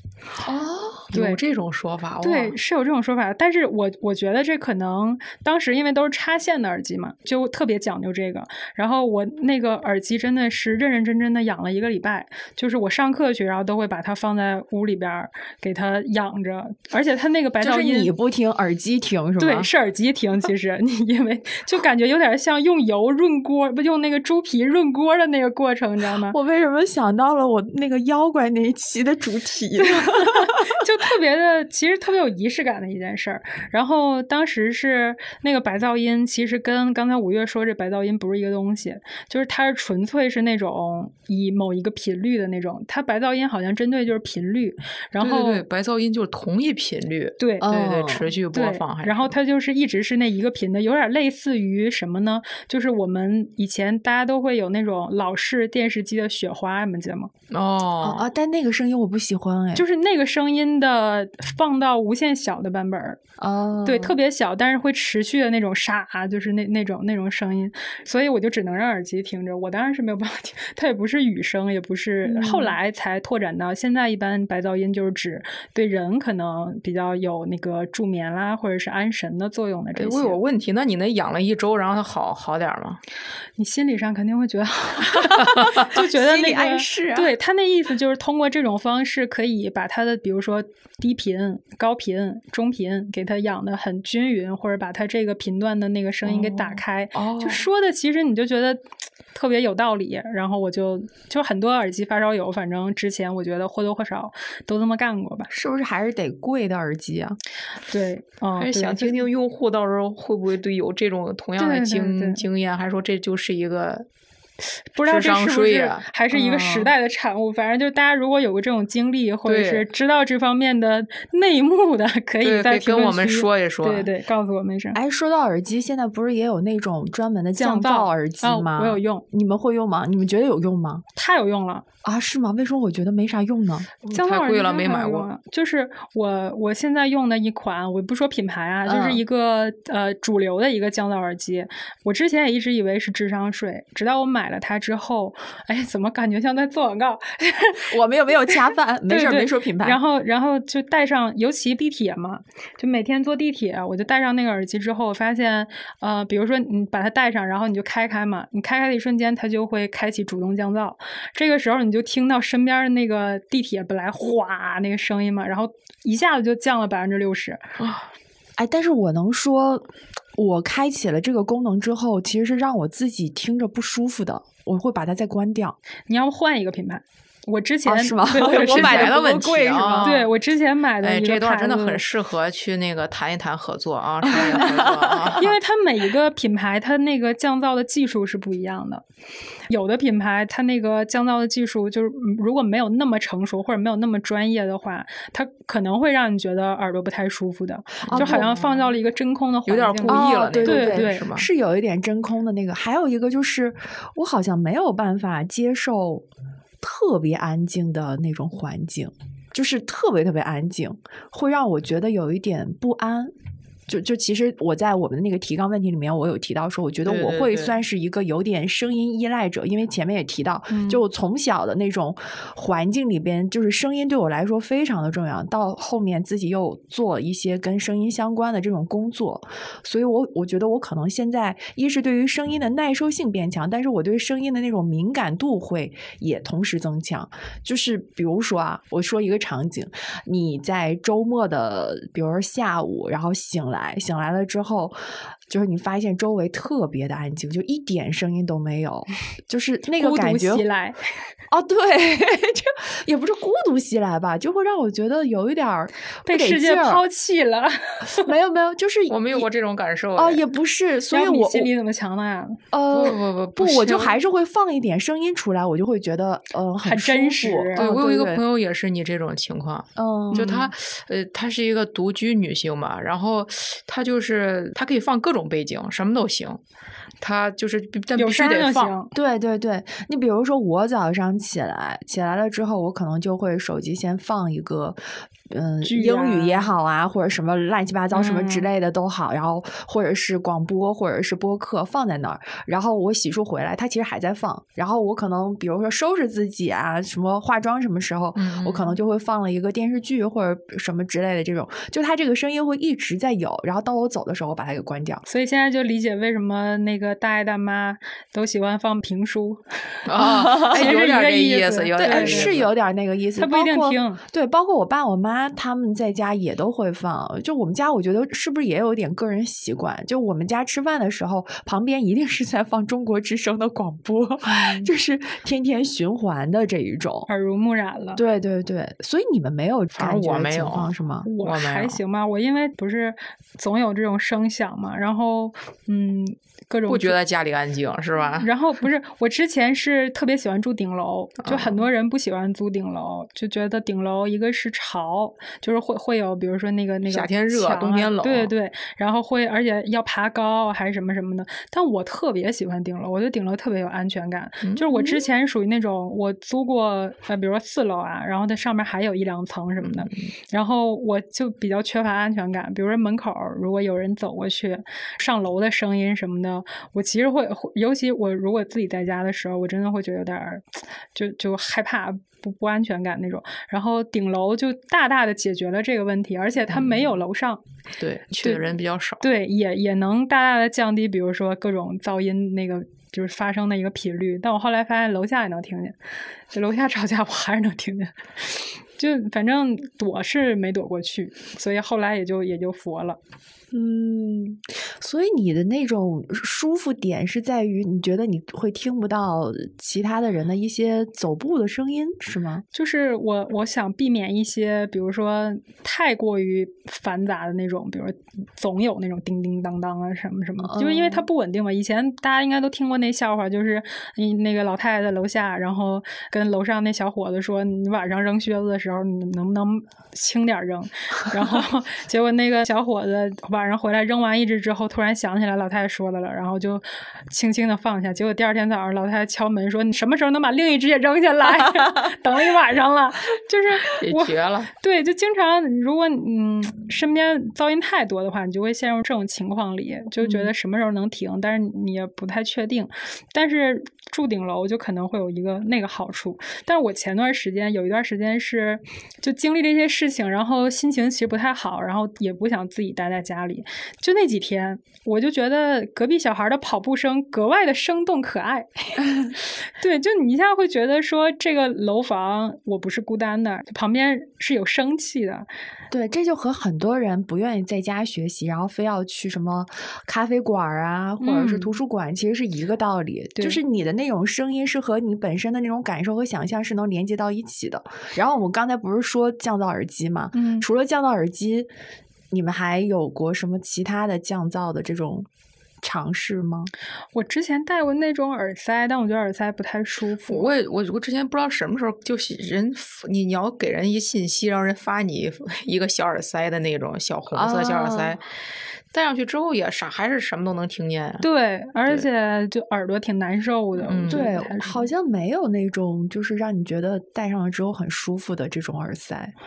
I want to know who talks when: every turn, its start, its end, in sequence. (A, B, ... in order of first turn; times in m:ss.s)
0:00.4-0:01.1 A
0:01.1-0:02.6 B
0:01.1-0:01.4 C
0:02.2-0:18.1 C
0:17.6-0:19.7 A
0:19.4-0:26.4 C
0:26.3-0:30.7 A
0:29.8-0:45.6 C
0:45.2-0:49.3 B
0:47.4-0:47.7 C
0:47.6-0:48.3 A
0:48.5-0:57.3 C
0:57.5-0:58.2 B
0:58.0-0:59.8 A
0:59.7-1:03.2 C
1:03.4-1:04.2 A
1:03.8-1:20.4 C
1:12.2-1:12.8 A
1:20.0-1:23.0 B
1:23.6-1:45.5 C
1:25.1-1:27.3 A
1:36.2-1:37.6 A
1:45.5-1:47.4 A
1:47.9-1:49.2 C
1:48.6-1:54.0 B
1:51.6-1:52.4 C
1:54.9-2:05.0 C
1:55.0-1:56.0 B
1:56.3-1:56.9 A
1:59.4-1:59.8 B
2:02.4-2:04.1 B
2:04.9-2:11.0 A
2:07.6-2:09.2 C
2:11.2-2:11.8 C
2:12.0-2:14.0 A
2:14.0-2:15.3 B
2:14.1-2:27.9 C
2:18.8-2:19.2 A
2:27.9-2:30.0 A
2:28.5-2:47.6 C
2:47.8-2:48.1 B
2:48.6-2:55.8 A
2:56.1-2:59.1 C
2:57.8-3:00.1 A
2:58.3-3:00.3 B
3:00.0-3:02.0 C
3:01.0-3:05.5 B
3:04.3-3:05.4 A
3:04.3-3:04.6 C
3:05.4-3:09.0 C
3:09.7-3:21.2 C
3:18.0-3:18.8 B
3:18.1-3:18.6 A
3:19.7-3:21.5 B
3:20.1-3:26.2 A
3:26.8-3:33.3 A
3:33.9-4:05.0 A
3:37.0-3:37.8 B
3:40.7-3:41.0 C
4:05.5-4:10.6 A
4:10.0-4:11.0 C
4:11.5-4:17.0 A
4:16.2-4:18.3 C
4:18.2-4:19.5 A
4:19.1-4:20.4 B
4:20.2-4:21.7 A
4:21.1-4:22.6 C
4:22.7-4:28.4 A
4:22.9-4:24.2 B
4:26.8-4:27.8 C
4:27.8-4:36.6 B
4:30.0-4:30.7 A
4:30.3-4:30.6 C
4:37.2-4:38.9 B
4:38.2-4:39.1 C
4:39.1-4:45.0 A
4:45.5-5:05.2 A
4:45.8-4:46.7 C
4:48.1-4:48.6 C
4:58.4-4:59.0 B
5:05.3-5:12.5 C
5:10.0-5:12.7 B
5:10.2-5:11.0 A
5:12.0-5:27.3 A
5:13.4-5:14.2 C
5:24.4-5:24.9 C
5:27.3-5:28.2 C
5:28.1-5:31.3 A
5:30.0-5:30.9 B
5:31.2-5:37.2 C
5:31.4-5:32.0 B
5:36.9-5:38.5 B
5:38.4-6:17.6 C
5:41.4-5:41.8 B
5:47.0-5:48.5 B
5:54.6-5:55.1 B
5:59.8-6:00.3 B
6:16.7-6:17.0 B
6:18.0-6:19.2 B
6:18.4-6:26.0 C
6:26.5-6:33.2 C
6:33.7-6:42.6 A
6:42.7-7:39.1 C
6:50.6-6:51.3 A
7:13.9-7:14.7 B
7:20.2-7:20.5 A
7:39.8-7:45.4 C
7:45.9-8:01.7 A
7:51.2-7:51.7 C
8:00.3-8:00.6 C
8:02.3-8:05.3 A
8:05.8-8:06.7 A
8:07.1-8:10.5 C
8:10.3-8:18.2 B
8:17.3-8:18.1 A
8:18.9-8:21.2 B
8:21.2-8:24.9 C
8:23.8-8:24.3 B
8:24.1-8:29.3 A